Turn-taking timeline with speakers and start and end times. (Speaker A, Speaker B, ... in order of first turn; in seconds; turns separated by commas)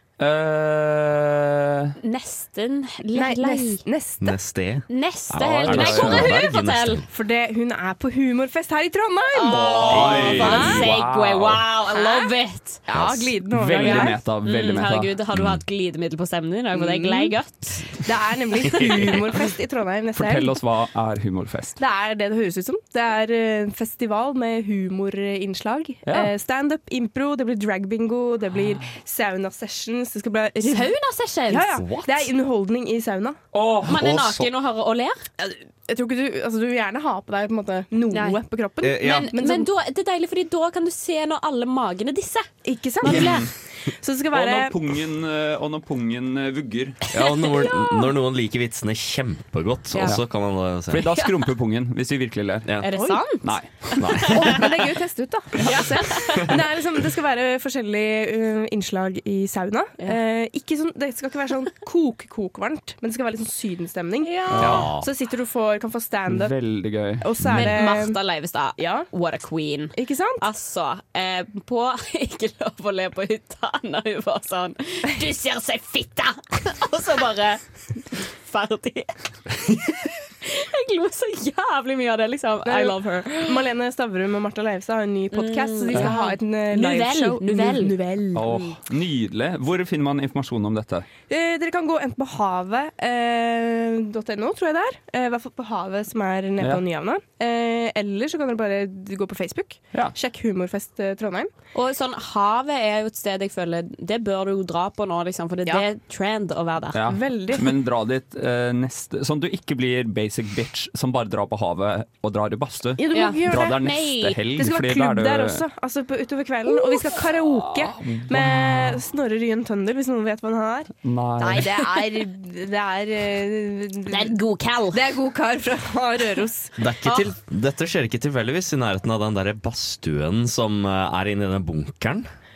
Speaker A: 0.2-1.9, Speaker B: 2.0-3.8, Speaker C: 3.1-4.3, Speaker D: 4.2-7.1, Speaker B: 4.9-7.0, Speaker A: 5.6-6.4, Speaker C: 7.1-10.8, Speaker B: 9.3-12.8, Speaker A: 9.4-11.6, Speaker D: 9.9-10.8, Speaker C: 11.9-12.3, Speaker C: 12.8-14.2, Speaker D: 12.9-13.2, Speaker A: 13.4-15.1, Speaker B: 13.7-17.9, Speaker D: 15.3-15.6, Speaker C: 16.7-17.3, Speaker C: 17.9-20.6, Speaker A: 20.1-21.8, Speaker C: 21.8-30.9, Speaker A: 26.1-26.3, Speaker B: 30.6-31.8, Speaker C: 31.5-33.4, Speaker D: 32.0-32.2, Speaker A: 33.5-34.2, Speaker B: 33.9-35.2, Speaker D: 34.0-34.5, Speaker C: 35.4-39.7, Speaker B: 38.1-38.4, Speaker D: 38.8-39.3, Speaker B: 39.0-42.5, Speaker C: 42.6-44.7, Speaker B: 43.0-43.5, Speaker A: 43.0-43.5, Speaker A: 44.3-47.0, Speaker D: 47.1-51.1, Speaker B: 47.5-48.0, Speaker B: 49.9-50.2, Speaker A: 50.9-52.8, Speaker B: 52.8-54.6, Speaker C: 52.9-53.2, Speaker A: 53.4-54.6, Speaker D: 54.0-54.3, Speaker C: 54.3-66.5, Speaker B: 55.6-56.5, Speaker B: 64.2-64.9, Speaker A: 64.5-64.9, Speaker D: 64.6-65.1, Speaker A: 66.3-67.8, Speaker C: 67.2-68.2, Speaker B: 67.4-79.1, Speaker C: 68.8-69.1, Speaker C: 69.9-70.4, Speaker B: 79.7-83.6, Speaker C: 82.6-88.6, Speaker B: 85.3-87.9, Speaker A: 88.3-91.1, Speaker C: 91.3-101.5, Speaker B: 101.7-107.0, Speaker A: 106.9-115.6, Speaker C: 107.0-107.7, Speaker C: 113.0-113.8, Speaker B: 113.1-114.4, Speaker C: 114.5-124.4, Speaker B: 116.7-117.0, Speaker A: 117.6-119.0, Speaker A: 121.0-121.7, Speaker B: 121.5-122.0, Speaker B: 124.1-125.0, Speaker C: 124.9-126.7, Speaker D: 126.8-132.2, Speaker B: 127.0-127.3